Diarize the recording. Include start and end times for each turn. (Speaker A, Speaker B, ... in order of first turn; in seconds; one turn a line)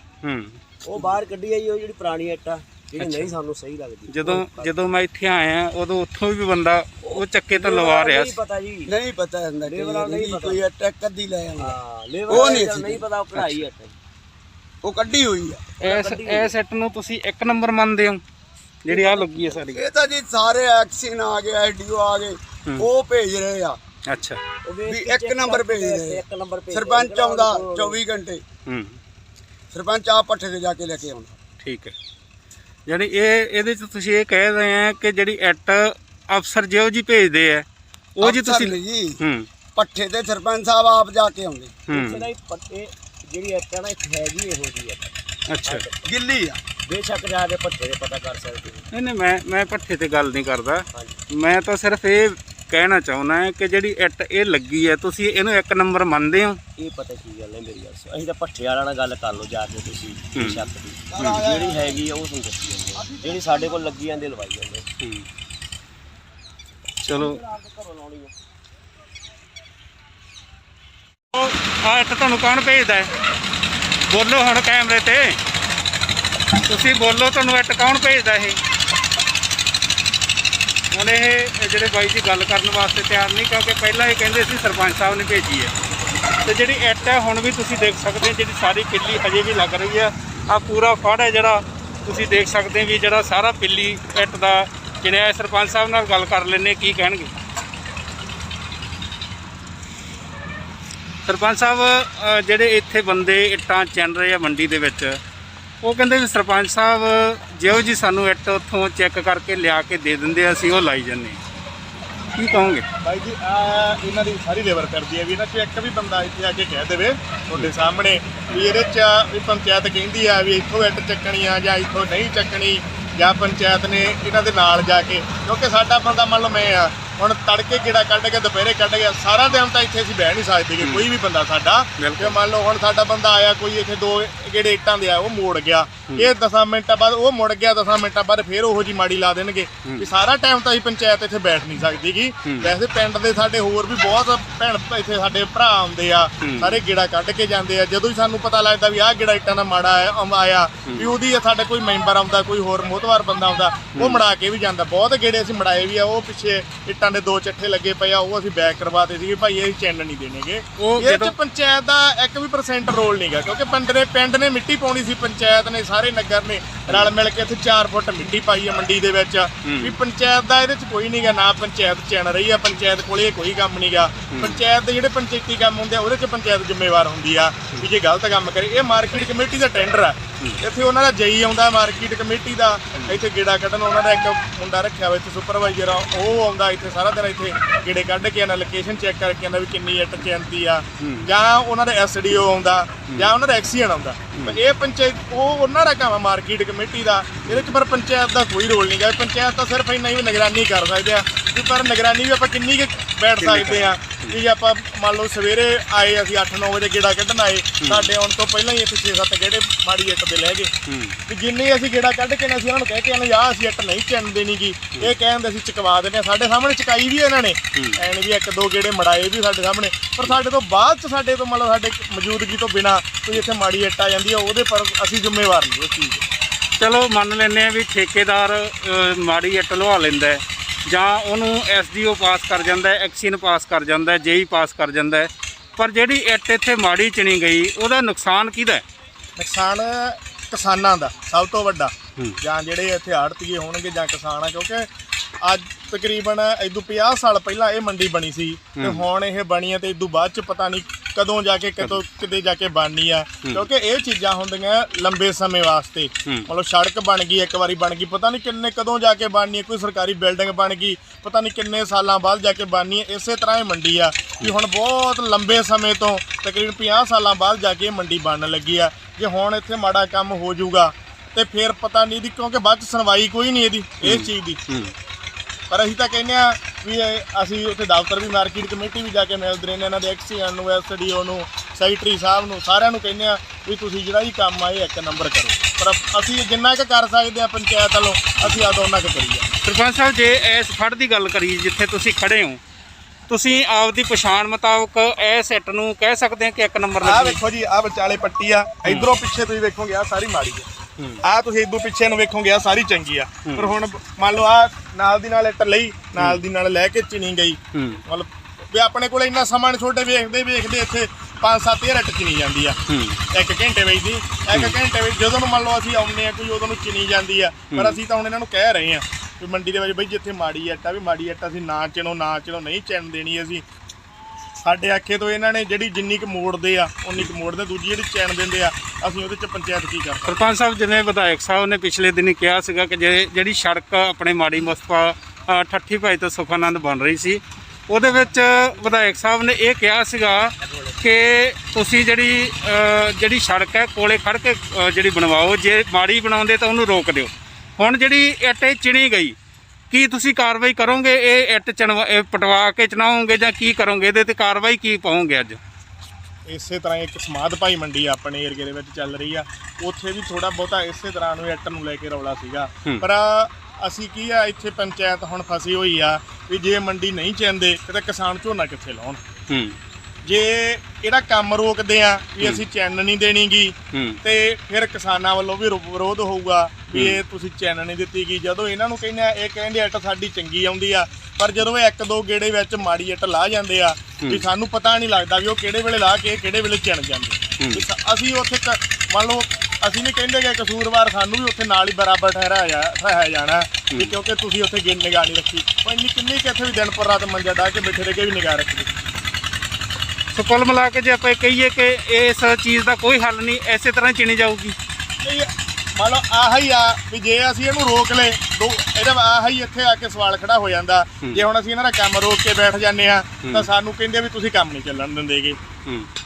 Speaker A: 0.2-0.6
Speaker B: 0.9-4.8
Speaker A: 3.0-3.3
Speaker A: 4.1-8.4
Speaker B: 7.1-8.9
Speaker C: 8.9-11.8
Speaker B: 9.7-10.6
Speaker B: 11.6-13.9
Speaker C: 12.3-13.1
Speaker A: 13.3-13.6
Speaker C: 14.8-15.7
Speaker A: 15.8-18.2
Speaker B: 15.8-16.5
Speaker A: 18.9-19.8
Speaker B: 18.9-19.5
Speaker C: 19.7-23.8
Speaker A: 24.1-24.4
Speaker B: 24.6-28.0
Speaker C: 24.9-28.4
Speaker A: 28.7-29.0
Speaker C: 29.7-31.4
Speaker A: 31.6-31.9
Speaker A: 32.9-37.6
Speaker A: 38.2-39.5
Speaker C: 38.2-39.2
Speaker C: 39.8-41.8
Speaker A: 41.9-42.3
Speaker B: 41.9-46.1
Speaker A: 45.5-45.9
Speaker C: 46.1-46.6
Speaker B: 46.9-48.9
Speaker A: 48.9-56.6
Speaker B: 50.9-51.2
Speaker B: 56.8-64.9
Speaker A: 60.4-60.7
Speaker C: 61.1-62.0
Speaker C: 63.0-63.9
Speaker A: 65.0-65.3
Speaker A: 67.0-67.4
Speaker B: 67.2-68.3
Speaker A: 71.3-73.1
Speaker A: 74.1-75.4
Speaker A: 76.6-78.6
Speaker A: 80.9-85.7
Speaker A: 86.4-97.3
Speaker A: 101.2-105.2
Speaker A: 105.8-111.4
Speaker A: 112.4-112.8
Speaker D: 113.0-210.7
Speaker A: 130.8-131.1
Speaker A: 132.0-132.4
Speaker A: 142.5-142.7
Speaker A: 146.4-146.8
Speaker A: 150.9-151.1
Speaker A: 153.9-154.2
Speaker A: 160.8-161.3
Speaker A: 169.7-170.0
Speaker A: 174.3-174.6
Speaker A: 191.0-191.3
Speaker A: 194.3-194.6
Speaker A: 197.5-197.7
Speaker A: 203.4-204.4
Speaker A: 207.8-208.1
Speaker A: 210.9-211.2
Speaker D: 211.3-226.2
Speaker A: 226.8-238.8
Speaker D: 239.4-244.9
Speaker D: 245.4-274.6
Speaker A: 248.8-249.1
Speaker A: 274.0-274.9
Speaker D: 275.7-289.5
Speaker A: 289.6-292.6
Speaker A: 293.3-297.4
Speaker D: 297.0-300.7
Speaker A: 298.9-299.2
Speaker D: 301.2-312.8
Speaker A: 303.5-303.8
Speaker A: 306.2-306.4
Speaker A: 307.8-308.0
Speaker A: 312.9-313.2
Speaker D: 313.3-323.6
Speaker A: 317.7-318.0
Speaker D: 324.6-330.4
Speaker A: 330.3-349.4
Speaker A: 349.9-355.6
Speaker D: 356.5-369.2
Speaker A: 369.5-369.8
Speaker D: 370.2-398.9
Speaker A: 376.9-377.2
Speaker A: 387.6-387.9
Speaker A: 400.3-404.8
Speaker D: 405.2-415.6
Speaker A: 413.4-413.7